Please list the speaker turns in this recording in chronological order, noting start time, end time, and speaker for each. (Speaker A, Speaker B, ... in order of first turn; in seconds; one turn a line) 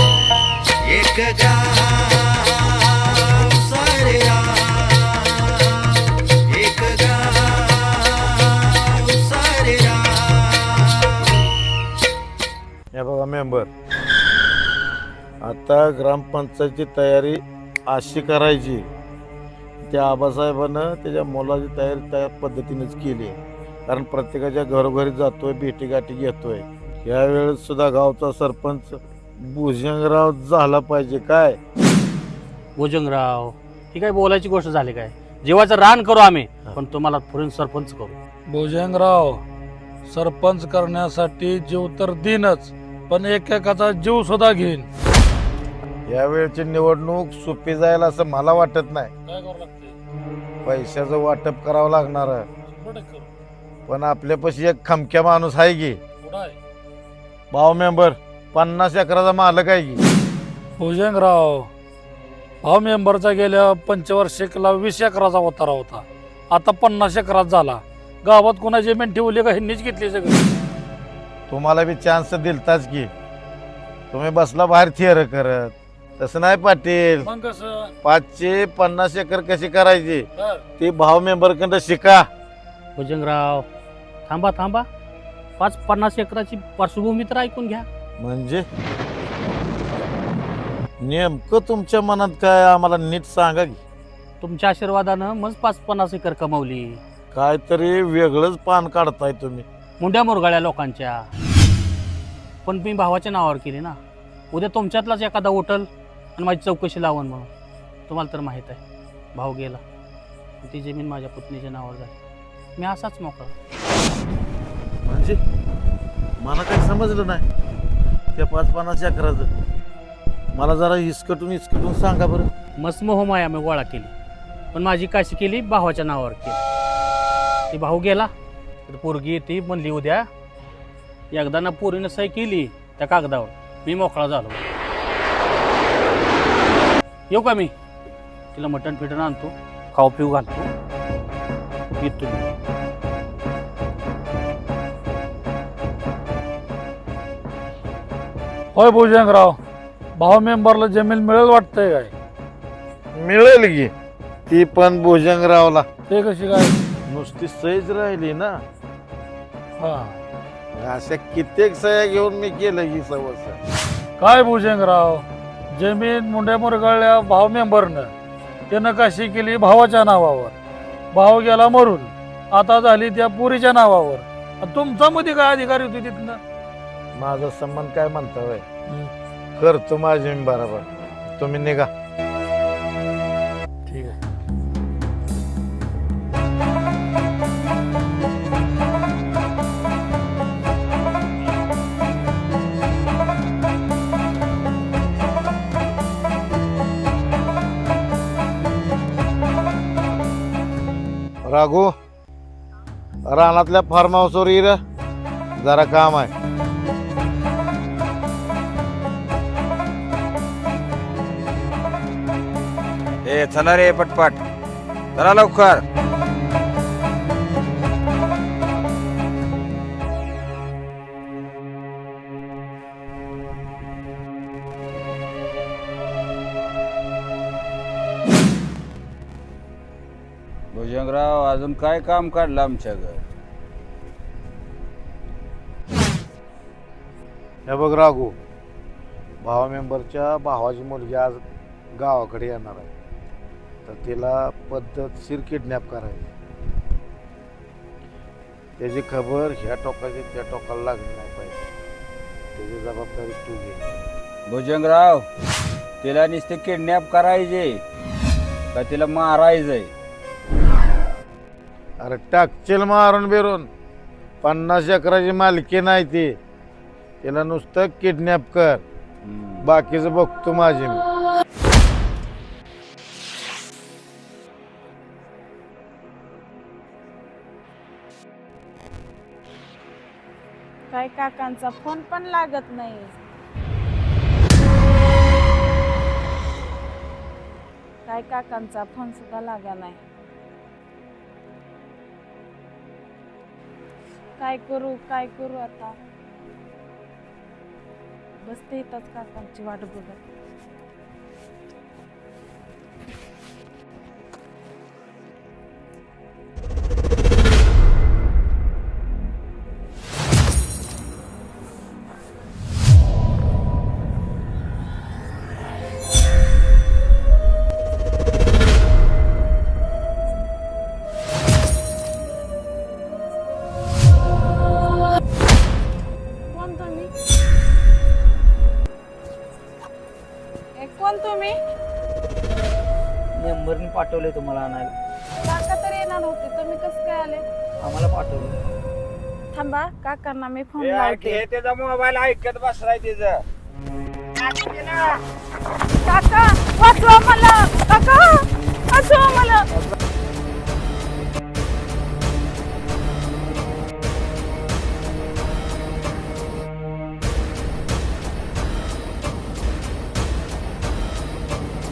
Speaker A: 0.9-11.2
Speaker B: 12.9-13.7
Speaker B: 15.4-18.9
Speaker B: 19.9-31.6
Speaker C: 32.8-38.2
Speaker D: 38.5-39.4
Speaker D: 40.0-44.9
Speaker B: 46.1-49.1
Speaker D: 49.2-50.0
Speaker B: 50.6-52.5
Speaker D: 52.7-53.3
Speaker B: 53.9-56.0
Speaker D: 56.2-56.6
Speaker B: 57.5-60.0
Speaker D: 60.8-61.7
Speaker D: 62.6-70.4
Speaker B: 71.5-73.1
Speaker B: 74.1-77.3
Speaker D: 77.2-77.9
Speaker B: 78.0-80.2
Speaker D: 80.4-80.6
Speaker B: 80.8-82.2
Speaker C: 83.0-83.7
Speaker C: 84.3-84.8
Speaker C: 85.6-87.8
Speaker B: 88.2-88.6
Speaker B: 91.0-93.8
Speaker C: 94.4-97.0
Speaker B: 97.3-99.6
Speaker C: 100.0-101.2
Speaker C: 102.6-104.0
Speaker C: 104.5-107.5
Speaker C: 108.1-108.8
Speaker C: 109.3-109.8
Speaker C: 110.6-112.1
Speaker C: 112.8-113.5
Speaker B: 115.0-115.4
Speaker B: 116.4-117.5
Speaker B: 118.3-119.5
Speaker B: 120.5-122.5
Speaker C: 122.8-124.1
Speaker C: 124.7-126.6
Speaker C: 127.7-128.3
Speaker C: 128.9-130.2
Speaker C: 131.3-134.6
Speaker C: 137.3-137.7
Speaker C: 138.5-140.7
Speaker C: 142.0-142.5
Speaker D: 148.7-149.6
Speaker D: 150.2-152.1
Speaker B: 153.2-153.9
Speaker B: 154.5-155.8
Speaker D: 156.1-156.8
Speaker B: 157.1-158.6
Speaker D: 159.8-160.2
Speaker B: 160.8-163.6
Speaker D: 164.2-168.1
Speaker D: 168.7-170.6
Speaker D: 171.1-176.4
Speaker B: 177.2-178.6
Speaker B: 179.6-181.9
Speaker D: 183.9-184.2
Speaker B: 201.4-201.9
Speaker B: 203.3-204.8
Speaker B: 205.6-206.3
Speaker E: 213.2-214.4
Speaker E: 215.2-215.8
Speaker E: 230.7-233.2
Speaker B: 237.7-238.4
Speaker B: 239.4-241.4
Speaker B: 241.9-242.9
Speaker B: 243.8-246.3
Speaker B: 248.8-251.6
Speaker B: 252.6-253.8
Speaker E: 254.4-255.2
Speaker E: 256.0-257.8
Speaker E: 258.7-259.9
Speaker B: 262.0-263.7
Speaker B: 264.4-266.4
Speaker B: 267.2-268.8
Speaker E: 269.2-269.6
Speaker B: 269.6-271.0
Speaker F: 280.9-283.2
Speaker F: 288.0-290.0
Speaker F: 294.4-296.0
Speaker F: 298.4-300.2
Speaker F: 326.5-327.1
Speaker F: 330.8-331.6
Speaker G: 333.4-334.9
Speaker F: 335.4-337.4
Speaker G: 337.8-338.6
Speaker F: 339.5-341.5
Speaker E: 340.8-343.4
Speaker F: 346.0-349.8